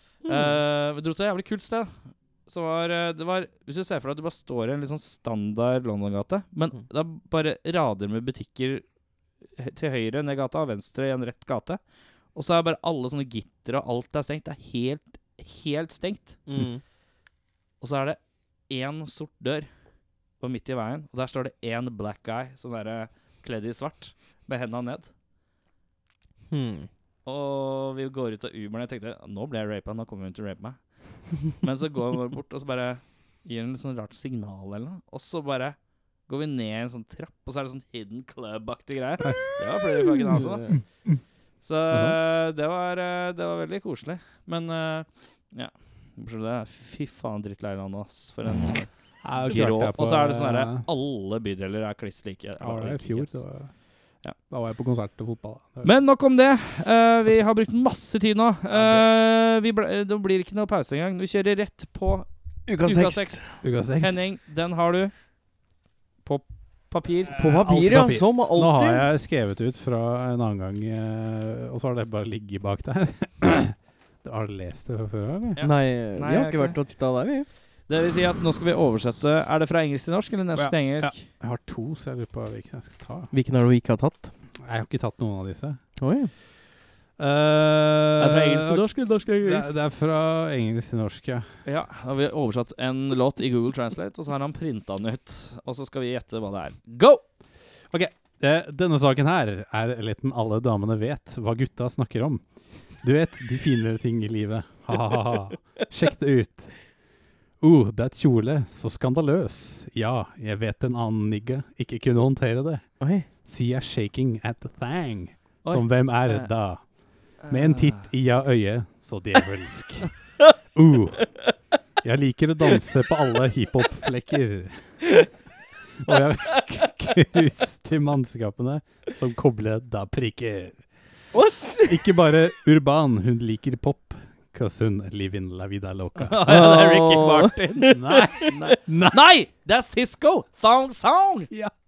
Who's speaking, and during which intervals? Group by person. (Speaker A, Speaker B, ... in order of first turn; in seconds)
Speaker A: 0.2-0.5, 16.5-16.8, 26.5-26.9, 40.2-40.8, 62.7-63.5, 67.3-69.0, 75.6-77.5, 83.3-84.3, 86.0-86.3, 113.0-113.3, 131.3-132.1, 136.5-138.5
Speaker B: 0.3-8.8, 9.6-11.8, 12.3-16.4, 17.8-19.7, 20.4-25.1, 27.2-40.8, 41.6-53.4, 55.8-65.1, 66.2-67.4, 75.5-76.8, 77.9-81.2, 88.2-89.7, 91.7-97.2, 115.6-116.5, 117.4-118.1, 136.2-141.5
Speaker C: 40.3-41.2, 41.9-42.2, 49.2-50.9, 52.6-53.7, 54.4-55.9, 58.7-59.1, 63.6-64.2, 67.3-75.6, 80.5-83.3, 84.6-85.8, 87.2-91.5, 97.9-102.5, 103.0-106.8, 107.6-121.3, 122.0-125.1, 126.0-130.9, 131.8-136.7, 137.9-139.2